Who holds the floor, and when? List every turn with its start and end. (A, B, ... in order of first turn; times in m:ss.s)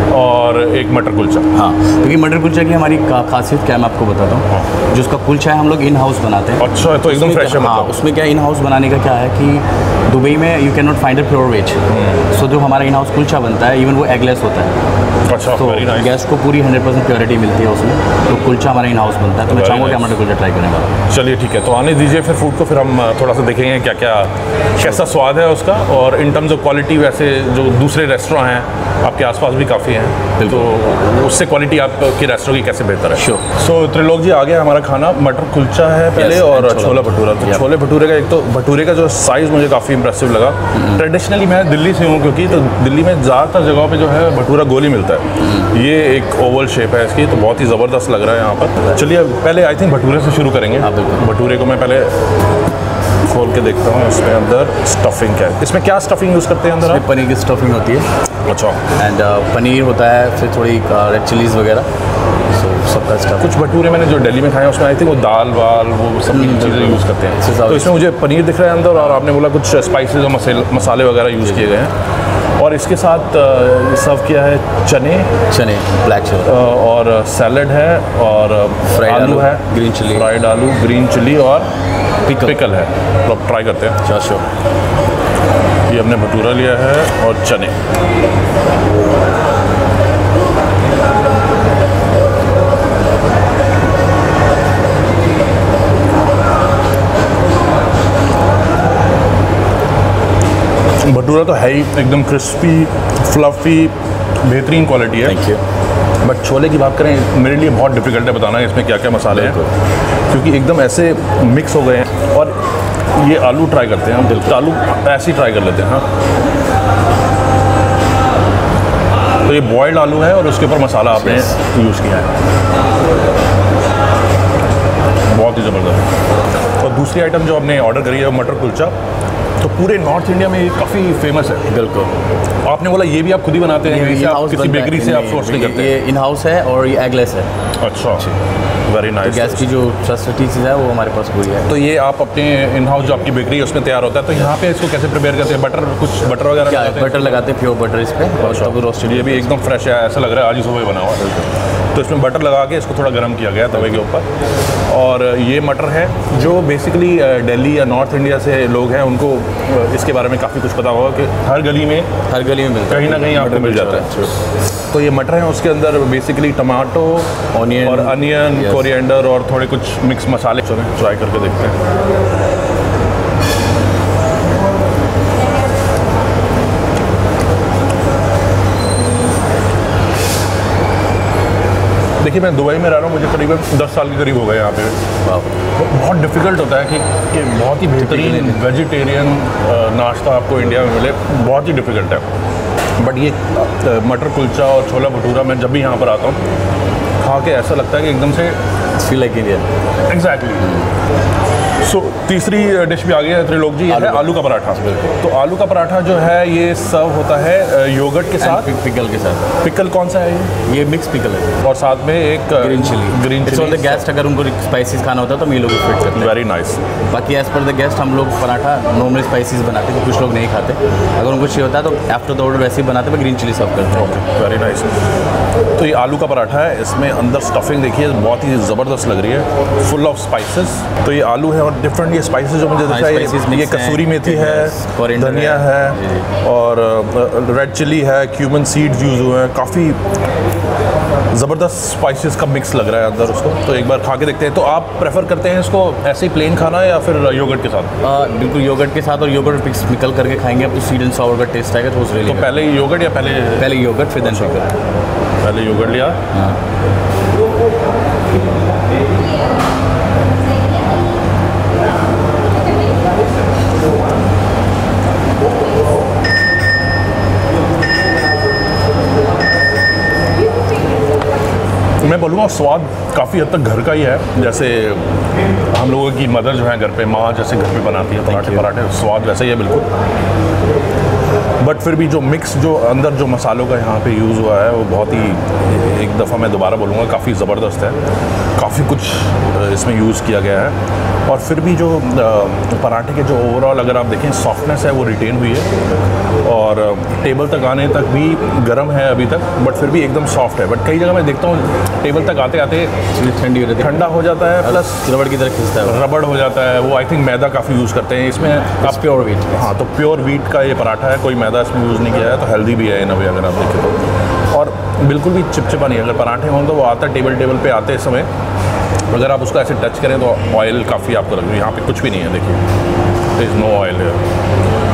0:00.1-0:01.5 A
0:01.5-0:14.8 B
0:06.6-0:08.0 A
0:11.9-0:12.3 A
0:15.2-0:16.2 A
0:15.5-0:20.9 B
0:19.5-0:20.2 A
0:21.1-0:52.1 A
0:30.4-0:30.7 B
0:33.1-0:33.4 B
0:36.1-0:37.6 B
0:40.7-0:41.0 B
0:45.4-0:45.7 B
0:50.8-0:51.3 B
0:53.3-0:57.0 A
0:56.8-0:58.1 B
0:58.4-0:58.9 A
0:59.0-1:01.9 B
1:02.5-1:03.6 B
1:03.4-1:11.9 A
1:06.3-1:08.0 B
1:09.0-1:09.2 B
1:11.4-1:11.7 B
1:12.6-1:15.3 A
1:15.5-1:16.6 B
1:16.4-1:21.7 A
1:18.9-1:20.3 B
1:22.3-1:22.6 B
1:22.4-1:24.0 A
1:24.0-1:24.4 B
1:25.9-1:27.7 A
1:41.0-1:45.4 A
1:45.2-1:45.6 B
1:46.2-1:49.6 A
1:49.3-1:49.7 B
1:50.3-1:52.6 A
1:53.1-1:56.0 A
1:54.2-1:54.5 B
1:59.4-2:02.3 A
2:01.1-2:01.6 B
2:05.3-2:06.1 A
2:06.8-2:09.0 A
2:09.6-2:11.7 A
2:11.7-2:12.1 B
2:12.6-2:16.0 A
2:13.8-2:17.5 B
2:17.8-2:18.3 A
2:18.9-2:19.8 A
2:19.2-2:21.7 B
2:21.6-2:27.4 A
2:26.6-2:29.7 B
2:28.4-2:31.4 A
2:31.9-2:34.3 A
2:34.9-2:42.1 A
2:42.3-2:44.4 B
2:42.9-2:44.2 A
2:44.9-2:51.8 A
2:47.5-2:48.9 B
3:02.2-3:05.0 A
3:05.2-3:05.6 B
3:05.7-3:12.3 A
3:08.0-3:08.6 B
3:13.0-3:16.4 A
3:17.2-3:18.6 A
3:19.0-3:19.7 B
3:20.0-3:20.7 A
3:20.6-3:20.9 B
3:21.8-3:28.7 A
3:23.9-3:25.0 B
3:28.4-3:29.5 B
3:29.6-3:30.6 A
3:30.6-3:31.6 B
3:31.6-3:34.1 A
3:32.6-3:36.3 B
3:36.1-3:36.8 A
3:37.1-3:44.2 B
3:43.9-3:44.9 A
3:45.8-4:00.0 A
3:52.8-3:56.3 B
4:01.3-4:07.9 A
4:08.0-4:12.5 B
4:12.2-4:14.6 A
4:13.6-4:14.7 B
4:15.4-4:16.2 A
4:16.3-4:16.6 B
4:32.0-4:39.9 A
4:38.2-4:38.7 B
4:41.6-4:48.0 A
4:48.6-4:50.7 A
4:51.3-4:55.7 A
4:56.4-5:03.0 A
5:03.1-5:06.0 B
5:03.8-5:05.1 A
5:05.8-5:18.3 A
5:08.7-5:09.7 B
5:19.1-5:22.6 A
5:23.4-5:24.2 A